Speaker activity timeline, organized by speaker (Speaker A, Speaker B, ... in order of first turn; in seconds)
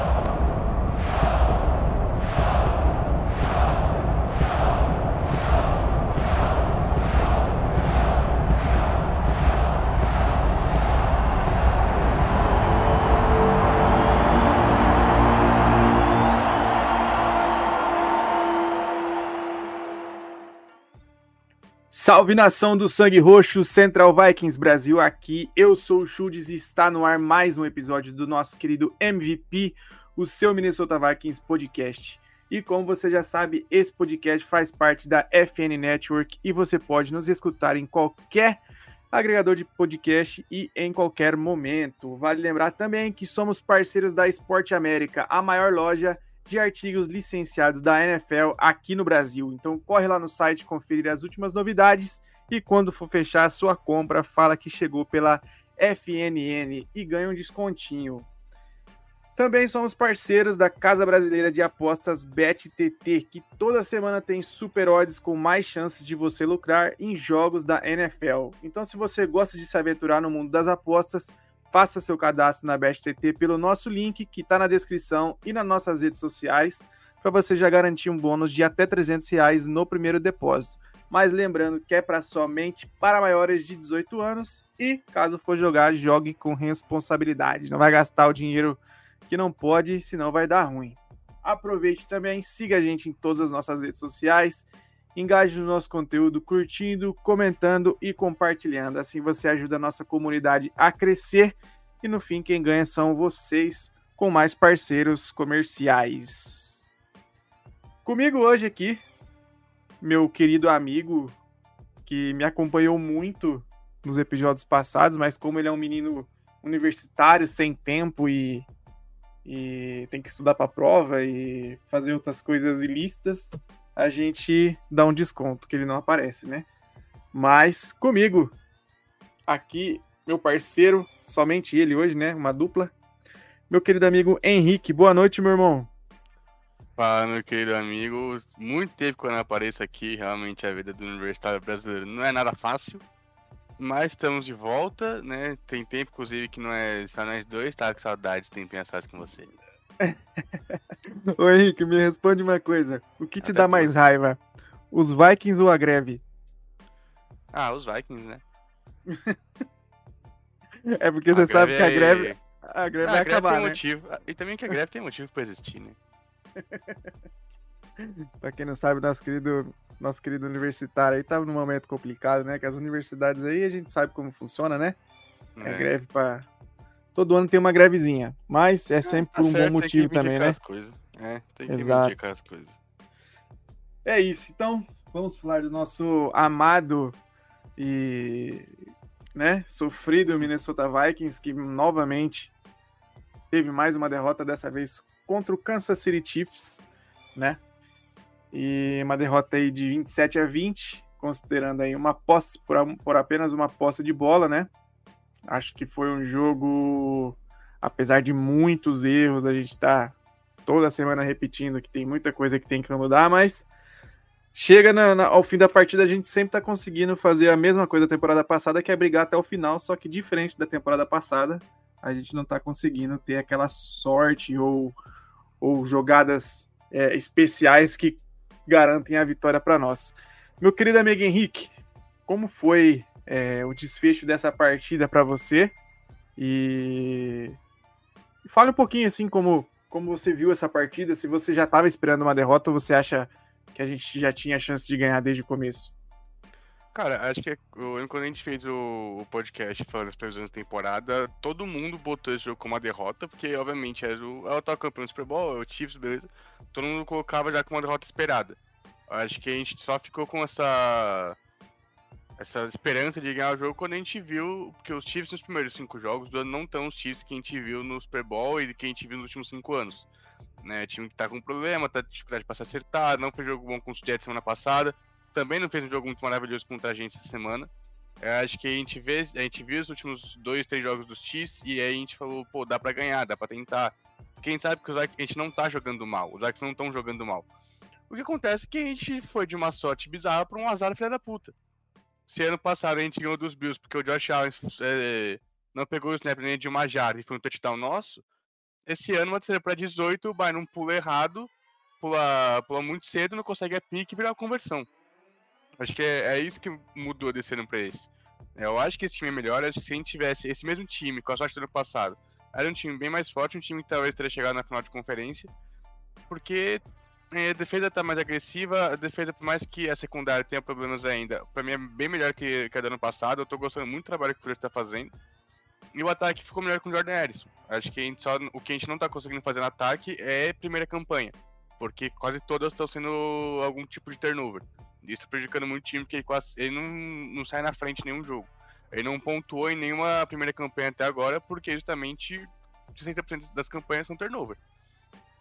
Speaker A: 21.9-58.3, 59.4-106.8, 108.0-109.0, 110.0-111.3, 112.0-118.7, 119.4-126.7, 127.3-128.5, 129.5-132.9, 133.7-135.9, 150.0-150.8, 151.4-154.4, 154.9-156.2, 159.1-159.3, 160.8-163.8, 166.6-166.9, 168.0-175.0, 175.6-176.5, 177.1-180.6, 181.7-182.2, 184.0-187.1, 187.8-188.7, 189.3-192.5, 193.5-196.8, 197.3-197.6, 198.5-204.7, 205.5-210.1, 210.7-213.7, 214.5-225.0, 225.6-231.7, 232.3-235.7, 236.4-237.6, 238.4-245.9
Speaker B: 137.0-143.0, 143.8-149.5, 153.4-154.0, 157.5-158.4, 161.3-162.4, 163.0-166.0, 175.6-175.9, 179.0-182.8, 246.9-261.4, 262.4-270.1, 270.6-287.5, 288.1-291.5, 292.3-298.2, 298.9-304.9, 305.8-315.5, 316.3-325.1, 325.9-344.6